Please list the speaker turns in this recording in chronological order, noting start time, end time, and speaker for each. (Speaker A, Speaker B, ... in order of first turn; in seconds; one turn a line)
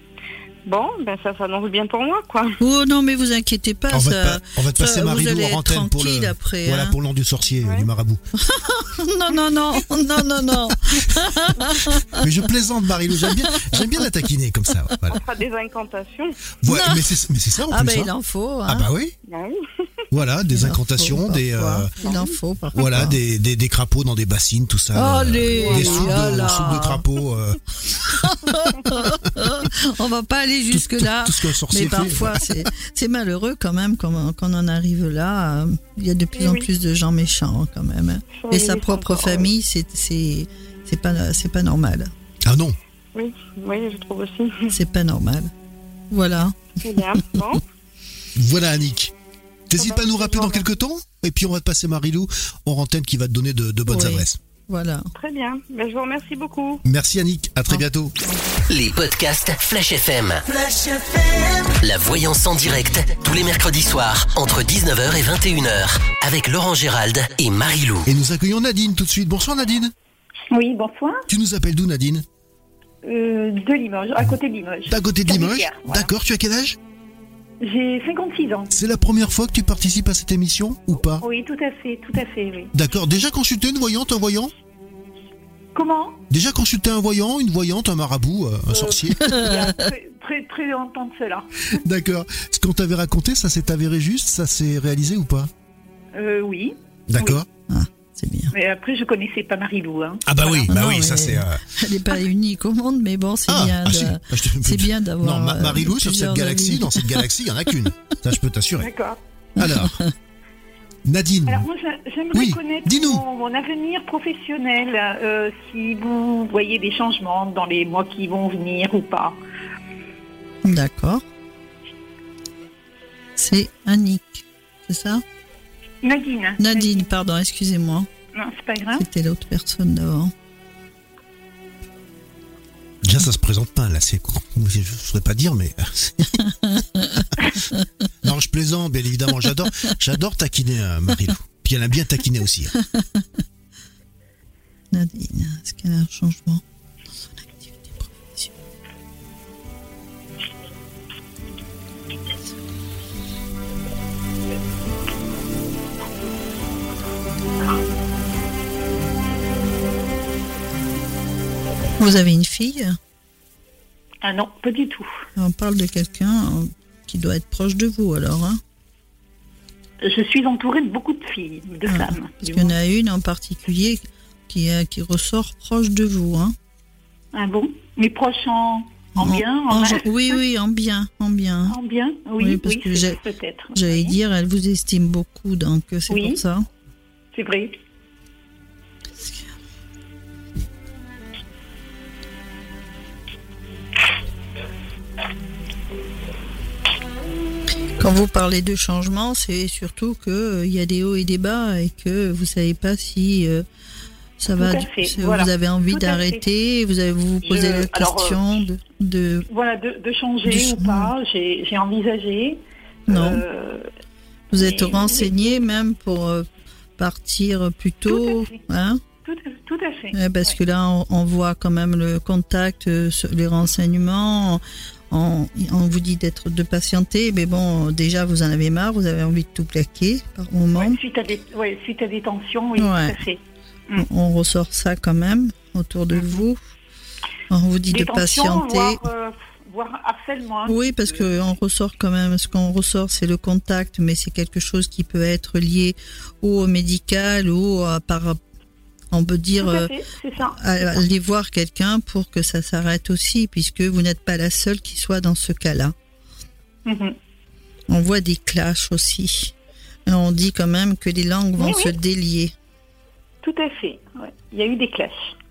Speaker A: 0.7-2.6
Speaker B: 2.6-7.0
Speaker C: 3.9-8.2
Speaker A: 7.6-7.9
Speaker B: 8.4-12.4
Speaker C: 12.2-15.2
Speaker B: 13.1-14.1
Speaker A: 15.1-16.4
Speaker C: 16.6-18.1
Speaker B: 16.7-17.2
Speaker B: 17.7-18.9
Speaker C: 18.7-19.1
Speaker A: 19.3-19.6
Speaker C: 20.1-21.9
Speaker B: 20.5-23.2
Speaker A: 22.0-22.4
Speaker C: 22.7-27.6
Speaker B: 24.9-27.1
Speaker A: 25.6-26.5
Speaker B: 27.9-42.1
Speaker C: 28.2-29.2
Speaker C: 30.7-32.5
Speaker A: 36.3-36.7
Speaker A: 38.3-39.5
Speaker C: 42.5-42.8
Speaker A: 43.1-44.8
Speaker B: 44.7-45.5
Speaker B: 46.1-47.6
Speaker A: 46.8-47.6
Speaker C: 48.4-49.1
Speaker C: 49.7-54.4
Speaker A: 49.8-50.7
Speaker B: 53.9-55.1
Speaker A: 55.1-56.8
Speaker C: 56.9-58.1
Speaker B: 57.7-58.5
Speaker D: 58.7-60.5
Speaker D: 61.5-68.1
Speaker C: 68.1-69.9
Speaker E: 70.5-71.2
Speaker C: 71.3-72.2
Speaker E: 73.0-76.1
Speaker C: 74.9-76.8
Speaker E: 77.6-78.7
Speaker C: 78.7-81.2
Speaker E: 81.2-82.7
Speaker C: 82.7-84.5
Speaker E: 85.7-86.2
Speaker C: 86.3-89.5
Speaker E: 88.7-91.5
Speaker B: 89.2-89.9
Speaker C: 91.7-95.5
Speaker E: 96.2-97.4
Speaker C: 97.1-97.5
Speaker B: 97.7-98.5
Speaker E: 98.5-100.7
Speaker C: 100.3-101.6
Speaker B: 100.7-107.3
Speaker C: 103.5-108.9
Speaker E: 108.8-109.2
Speaker C: 109.6-110.0
Speaker B: 109.6-110.1
Speaker C: 111.1-111.7
Speaker E: 111.5-119.4
Speaker C: 112.3-113.2
Speaker B: 120.6-121.2
Speaker B: 123.4-125.2
Speaker E: 126.0-127.0
Speaker B: 126.6-128.1
Speaker E: 128.3-129.1
Speaker B: 128.9-130.3
Speaker C: 133.0-136.4
Speaker B: 136.4-137.8
Speaker C: 138.2-142.8
Speaker B: 142.8-143.4
Speaker B: 144.9-146.6
Speaker B: 147.2-148.6
Speaker B: 162.0-163.0
Speaker E: 164.2-165.1
Speaker B: 165.4-168.6
Speaker E: 170.0-172.7
Speaker B: 171.9-176.6
Speaker E: 177.3-180.1
Speaker B: 179.2-181.8
Speaker E: 181.7-184.2
Speaker B: 182.4-183.2
Speaker B: 183.8-186.7
Speaker E: 186.1-186.4
Speaker E: 187.3-187.8
Speaker B: 198.0-203.7
Speaker B: 204.4-209.5
Speaker E: 204.6-206.4
Speaker E: 207.4-208.5
Speaker E: 209.5-213.9
Speaker B: 210.4-211.2
Speaker B: 213.1-213.4
Speaker B: 214.5-216.5
Speaker E: 214.6-215.4
Speaker B: 217.0-219.0
Speaker E: 218.1-218.6
Speaker E: 219.2-220.6
Speaker B: 220.1-231.0
Speaker E: 230.8-234.1
Speaker B: 232.8-233.2
Speaker B: 234.0-236.6
Speaker B: 237.5-239.1
Speaker E: 237.9-241.3
Speaker B: 240.7-248.4
Speaker B: 249.1-255.9
Speaker E: 249.6-251.0
Speaker E: 256.9-257.2
Speaker B: 257.9-259.6
Speaker B: 260.1-262.5
Speaker E: 261.6-261.9
Speaker E: 263.4-265.4